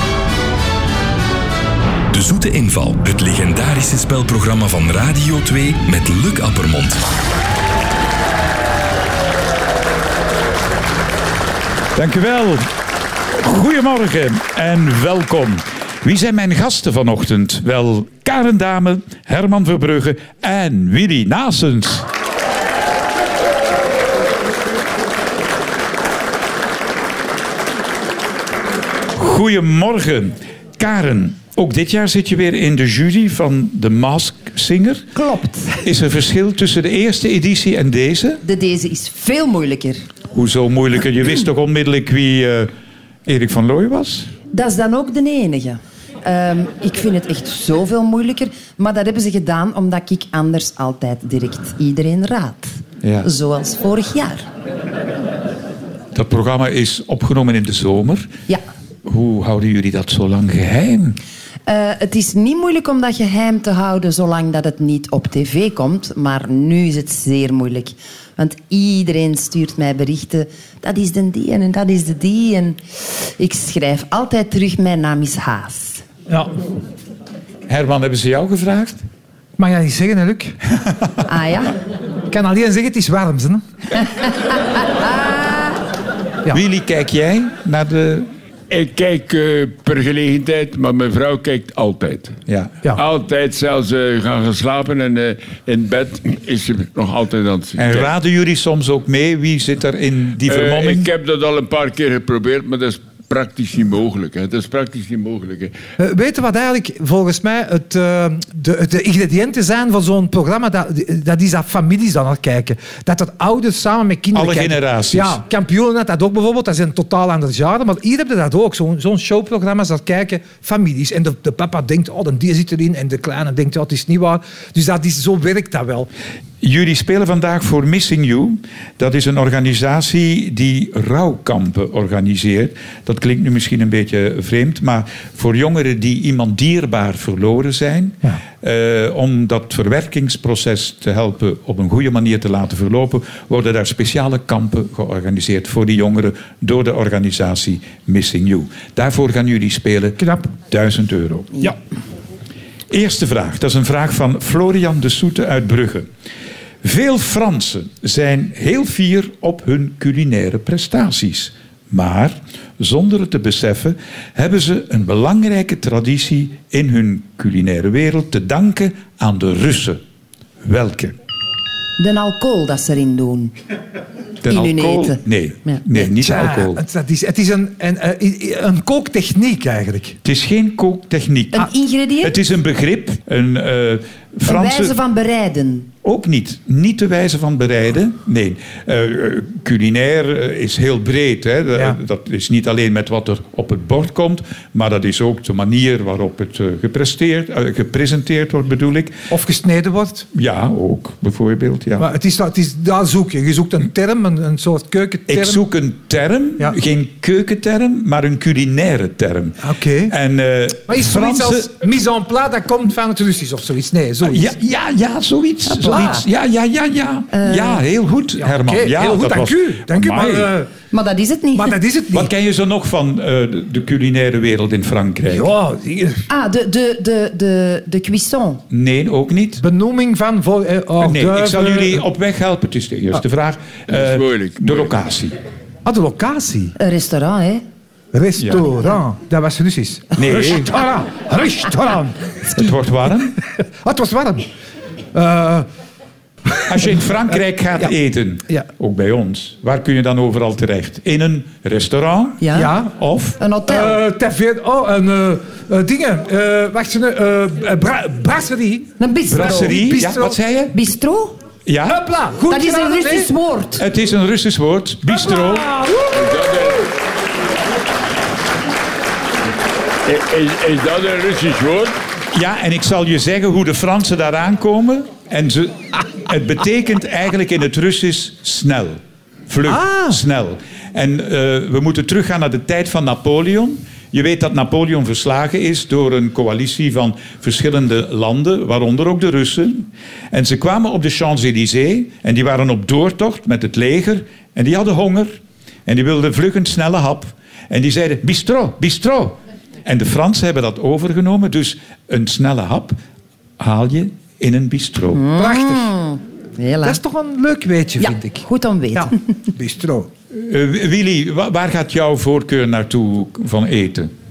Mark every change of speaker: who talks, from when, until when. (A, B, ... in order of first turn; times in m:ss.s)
0:02.1-0:07.0 A
0:12.0-0:12.7 B
0:13.4-0:22.1 B
0:29.1-0:35.1 B
0:35.1-0:35.8 C
0:35.8-0:38.4 B
0:38.4-0:40.0 C
0:40.3-0:42.7 B
0:43.3-0:44.3 B
0:44.5-0:54.5 C
0:53.0-0:53.3 B
0:56.1-0:58.3 B
0:59.1-1:01.2 B
1:01.7-1:16.0 C
1:16.3-1:16.5 D
1:17.7-1:19.0 B
1:19.6-1:20.6 D
1:21.3-1:21.8 C
1:22.3-1:23.6 D
1:24.8-1:25.8 C
1:26.5-1:28.3 B
1:28.7-1:32.4 E
1:32.5-1:32.8 B
1:33.0-1:38.1 E
1:37.8-1:41.1 B
1:40.5-1:45.7 E
1:46.0-2:06.1 D
1:54.3-1:55.4 B
2:06.6-2:31.8 B
2:30.2-2:30.5 D
2:32.9-2:36.1 B
2:36.8-2:50.0 B
2:50.6-2:51.2 B
2:52.0-2:53.5 C
2:54.4-2:56.8 B
2:54.5-2:55.8 C
2:56.2-3:00.2 D
3:00.2-3:01.7 B
3:01.5-3:02.4 C
3:02.2-3:05.0 B
3:04.5-3:05.9 C
3:06.0-3:19.3 B
3:19.3-3:20.3 D
3:20.3-3:22.1 B
3:22.0-3:25.6 D
3:25.3-3:31.7 B
3:29.6-3:30.2 D
3:30.9-3:34.5 D
3:34.2-3:40.5 B
3:35.6-3:36.2 C
3:35.9-3:36.2 D
3:37.3-3:37.8 C
3:38.4-3:40.7 D
3:40.9-3:41.8 C
3:41.6-3:42.3 D
3:42.1-3:45.5 B
3:45.3-3:46.3 D
3:46.3-3:48.6 C
3:48.7-3:49.6 B
3:49.6-3:52.0 D
3:51.0-3:55.4 B
3:53.9-3:54.9 E
3:55.8-3:56.7 D
3:56.8-3:57.6 C
3:58.1-4:02.4 D
3:58.4-3:58.7 B
4:00.2-4:00.8 B
4:02.4-4:03.4 B
4:03.8-4:04.5 D
4:05.1-4:05.7 D
4:06.5-4:07.1 D
4:06.7-4:13.4 B
4:12.4-4:12.7 C
4:12.5-4:12.9 D
4:13.4-4:14.0 C
4:13.7-4:20.4 D
4:19.0-4:19.8 C
4:19.3-4:20.8 B
4:20.7-4:21.4 C
4:21.7-4:22.0 B
4:21.8-4:23.3 D
4:22.5-4:23.8 C
4:23.8-4:25.7 B
4:25.1-4:26.8 D
4:26.1-4:26.9 E
4:30.0-4:32.0 E
4:32.3-4:55.3 B
4:39.7-4:40.2 D
4:55.9-5:03.0 B
5:03.6-5:05.2 B
5:05.1-5:07.0 C
5:05.4-5:05.9 D
5:06.8-5:10.1 D
5:08.0-5:09.2 C
5:10.3-5:14.1 B